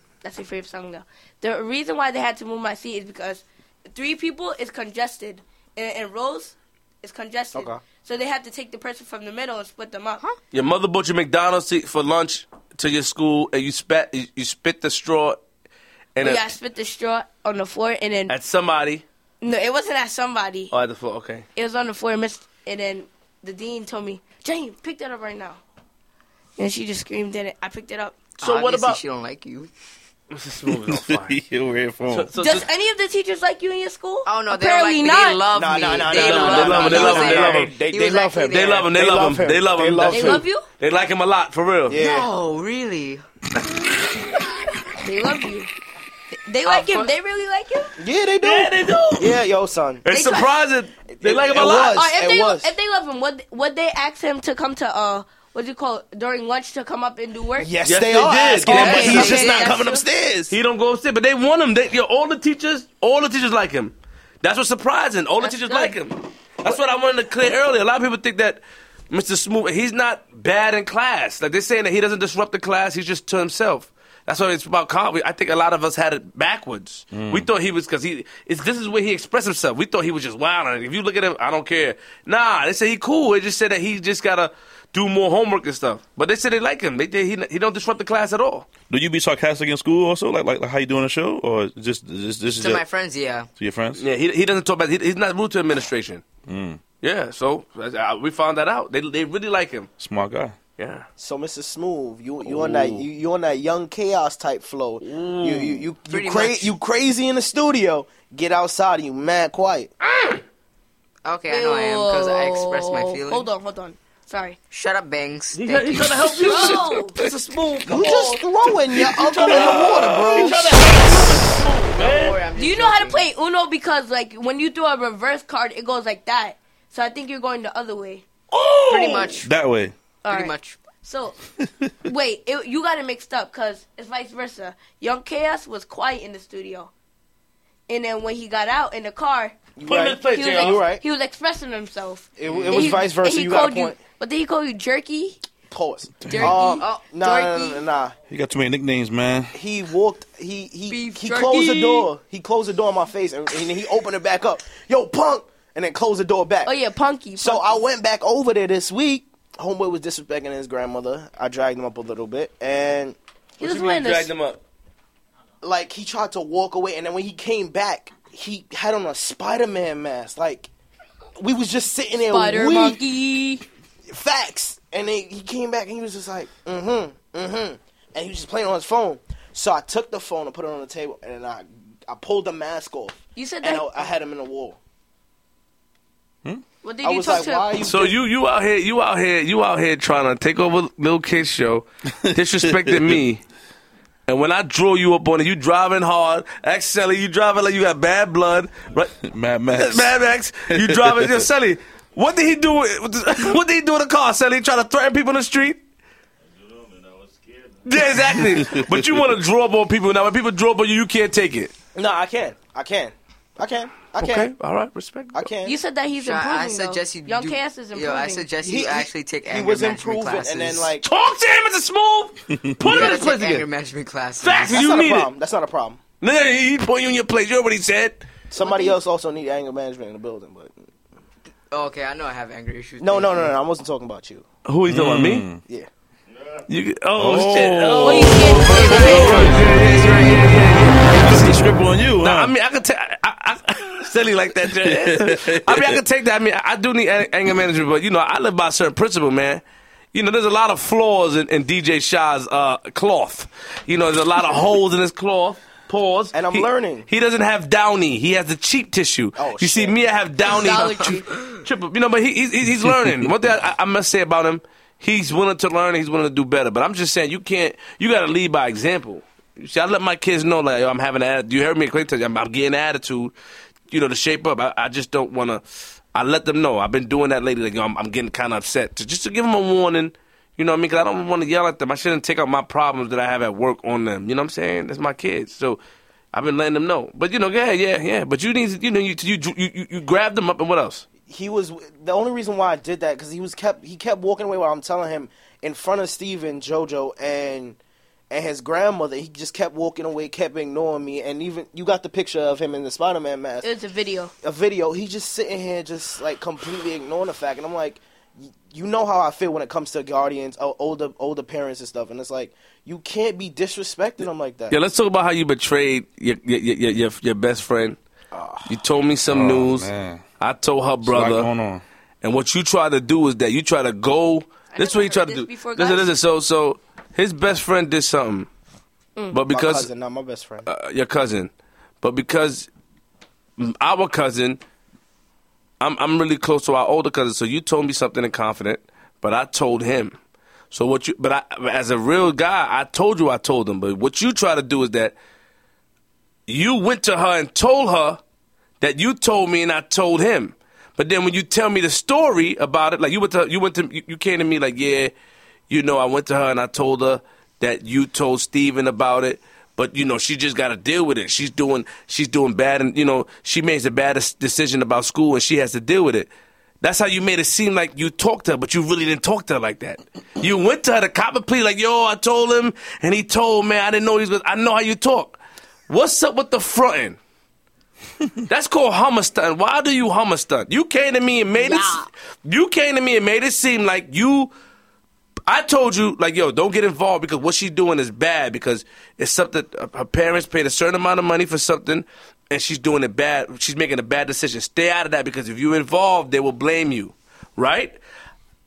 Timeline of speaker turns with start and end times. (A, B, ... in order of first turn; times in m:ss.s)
0:00.2-0:10.2 A
0:07.5-0:07.8 B
0:10.5-0:15.4 C
0:16.2-0:16.5 C
0:16.2-0:18.4 A
0:18.3-0:19.0 C
0:19.4-0:20.7 A
0:20.7-0:21.4 C
0:21.6-0:25.6 A
0:26.6-0:28.2 A
0:28.4-0:29.7 D
0:28.4-0:29.0 C
0:30.3-0:31.4 C
0:30.7-0:32.3 E
0:32.1-0:32.7 C
0:32.4-0:35.4 A
0:34.3-0:38.8 D
0:35.5-0:40.4 B
0:36.1-0:37.8 C
0:38.5-0:42.0 C
0:40.1-0:40.6 A
0:41.9-0:42.3 B
0:42.0-0:43.2 D
0:43.7-0:44.5 C
0:45.0-0:45.7 A
0:46.3-0:47.9 A
0:46.7-0:47.1 D
0:48.0-0:50.1 B
0:48.4-0:49.4 C
0:50.0-0:52.0 C
0:50.1-0:50.6 A
0:51.1-0:52.7 B
0:51.9-0:57.7 A
0:57.6-1:00.5 B
0:57.8-1:28.7 C
0:58.6-1:00.0 A
1:05.4-1:06.0 A
1:17.1-1:17.5 E
1:28.9-1:32.8 E
1:32.6-1:33.5 D
1:33.6-1:34.0 E
1:34.0-1:36.2 C
1:36.5-1:36.8 E
1:37.0-1:39.9 C
1:40.0-1:40.6 E
1:40.8-1:41.1 C
1:41.2-1:49.9 B
1:42.4-1:43.0 E
1:45.0-1:45.9 C
1:46.1-1:46.8 D
1:50.1-1:50.4 C
1:51.2-1:53.5 D
1:51.5-1:54.6 A
1:54.7-1:56.8 D
1:55.5-2:02.4 C
1:56.4-1:57.2 A
1:57.9-2:01.4 B
2:01.9-2:03.3 D
2:02.6-2:08.2 A
2:08.5-2:09.4 C
2:08.9-2:09.5 D
2:09.4-2:09.9 E
2:10.2-2:11.4 A
2:10.3-2:10.8 D
2:12.0-2:16.9 A
2:17.9-2:19.6 A
2:19.8-2:21.0 B
2:19.9-2:20.8 C
2:20.2-2:25.4 A
2:22.4-2:24.0 B
2:22.5-2:23.0 D
2:25.7-2:28.2 B
2:26.3-2:27.8 A
2:28.3-2:29.5 E
2:29.5-2:36.7 B
2:30.9-2:32.1 A
2:36.6-2:37.8 A
2:37.4-2:43.2 B
2:43.6-2:44.3 A
2:43.6-2:44.6 C
2:45.6-2:50.7 B
2:51.4-2:53.0 B
2:52.3-2:53.6 A
2:54.1-3:04.8 B
3:03.4-3:04.1 A
3:06.8-3:07.7 A
3:07.0-3:08.2 B
3:07.8-3:13.4 C
3:12.2-3:13.2 E
3:14.3-3:19.2 C
3:19.2-3:21.5 E
3:19.7-3:25.8 C
3:27.8-3:31.7 C
3:28.2-3:29.2 E
3:32.0-3:34.5 B
3:34.2-3:35.4 C
3:35.3-3:35.8 B
3:35.6-3:38.5 A
3:36.2-3:40.9 D
3:38.6-3:41.1 B
3:41.0-3:43.7 C
3:42.8-3:44.9 D
3:44.4-3:45.3 C
3:44.7-3:46.0 B
3:46.2-3:48.2 C
3:48.5-3:50.9 B
3:48.6-3:49.0 A
3:51.7-3:53.5 D
3:53.0-3:54.5 B
3:54.6-3:55.6 C
3:54.9-3:55.6 E
3:56.7-4:09.6 C
3:57.2-3:59.7 E
3:58.0-3:59.6 A
3:59.2-4:00.4 D
4:01.2-4:02.5 E
4:04.7-4:06.0 E
4:10.1-4:33.3 C
4:16.3-4:17.1 B
4:19.4-4:20.0 B
4:20.4-4:21.3 A
4:22.9-4:23.2 E
4:33.9-4:35.6 C
4:36.1-4:45.8 C
4:46.3-4:51.0 C
4:51.3-4:57.8 B
4:58.3-5:03.7 B
5:03.6-5:04.3 A
5:04.4-5:14.8 B
5:14.7-5:18.0 C
5:18.3-5:18.8 B
5:18.7-5:19.9 C
5:19.3-5:20.2 E
5:20.4-5:21.5 C
5:21.0-5:21.8 E
5:22.2-5:28.5 C
5:24.7-5:26.1 A
5:29.3-5:29.9 C
5:29.5-5:30.7 B
5:30.7-5:31.5 C
5:32.0-5:32.7 C
5:33.6-5:34.6 C
5:35.8-5:40.2 C
5:40.7-5:45.2 C
5:46.5-5:48.2 C
5:48.8-5:55.1 C
5:55.7-6:17.2 C
6:18.5-6:24.5 C
6:21.6-6:22.1 A
6:25.5-6:38.0 C